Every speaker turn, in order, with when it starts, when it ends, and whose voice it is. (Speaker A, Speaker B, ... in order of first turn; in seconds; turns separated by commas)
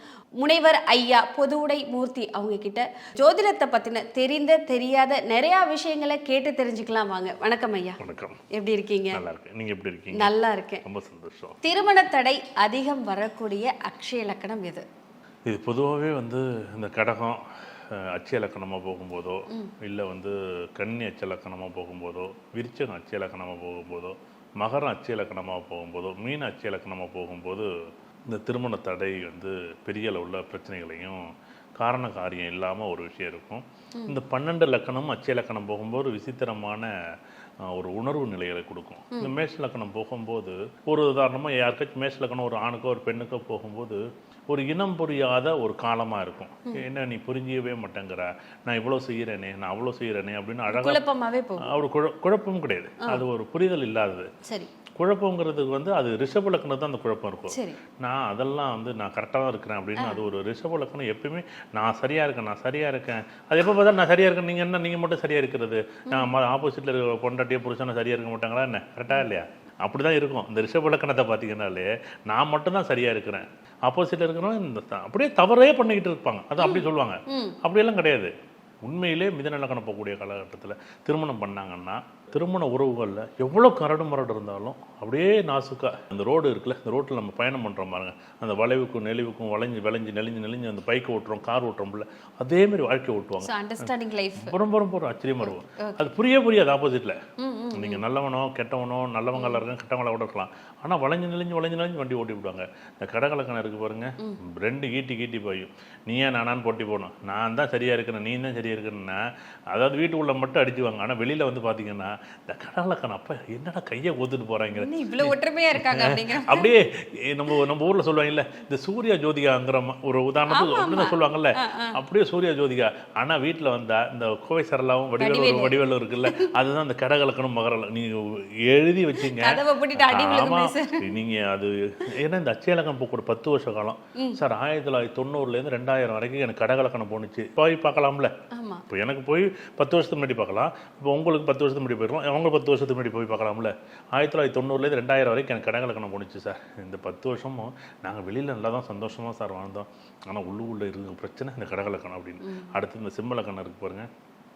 Speaker A: 0.4-9.2, Speaker B: 8.0-8.4, Speaker B: 9.1-10.3, Speaker A: 10.1-10.8, Speaker B: 10.8-11.6, Speaker A: 11.6-14.8, Speaker B: 15.4-17.4, Speaker B: 17.9-27.7, Speaker B: 28.3-31.2, Speaker B: 31.8-36.9, Speaker B: 37.7-51.0, Speaker A: 50.7-51.7, Speaker B: 51.6-54.3, Speaker A: 54.4-54.7, Speaker B: 55.0-78.3, Speaker A: 57.5-57.8, Speaker A: 60.0-60.2, Speaker A: 76.6-77.6, Speaker B: 78.8-97.2, Speaker A: 93.4-94.6, Speaker A: 95.4-96.0, Speaker A: 97.4-98.0, Speaker B: 97.7-109.2, Speaker A: 99.3-99.6, Speaker B: 109.7-138.3, Speaker A: 114.7-116.7, Speaker A: 120.5-121.9, Speaker A: 125.2-126.5, Speaker A: 129.2-131.1, Speaker A: 138.5-138.8, Speaker B: 138.9-154.1, Speaker A: 152.4-152.7